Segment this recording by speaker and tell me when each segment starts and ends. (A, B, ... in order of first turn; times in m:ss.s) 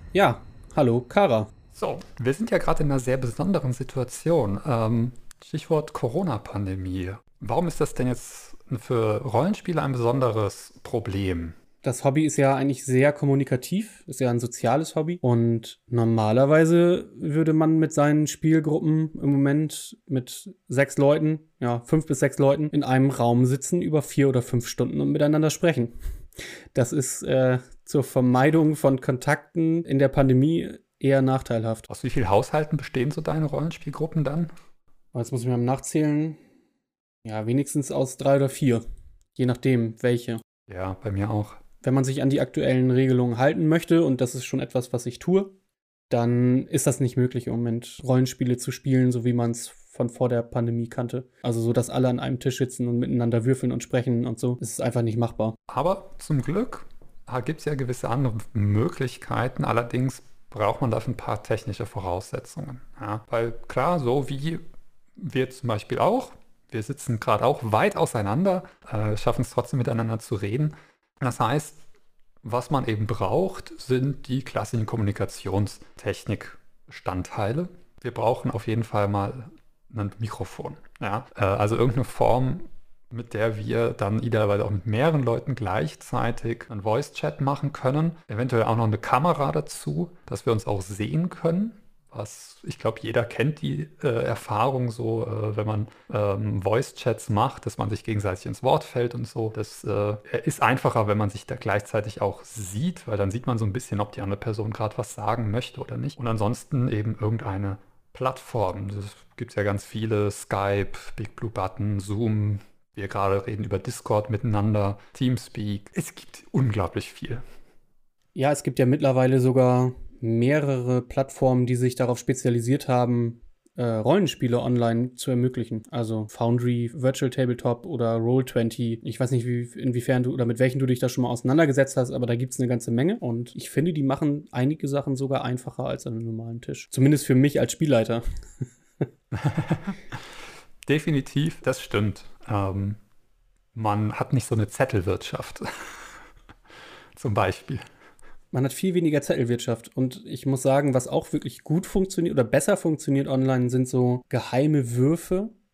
0:00.1-0:01.5 A
0:01.7-0:11.6 B
0:11.8-0:25.9 A
0:26.7-0:31.9 A
0:31.9-0:34.5 B
0:35.1-0:36.4 A
0:37.2-0:38.8 A
0:39.4-0:40.4 A
0:40.7-0:41.6 B
0:41.8-0:45.5 A
0:46.1-0:55.6 A
0:55.7-1:04.6 B
1:05.2-1:11.8 B
1:12.4-1:57.4 B
1:58.4-2:18.2 A
2:19.3-2:20.3 B
2:20.9-2:23.0 B
2:23.7-2:26.2 B
2:27.2-2:27.8 B
2:28.5-2:35.5 A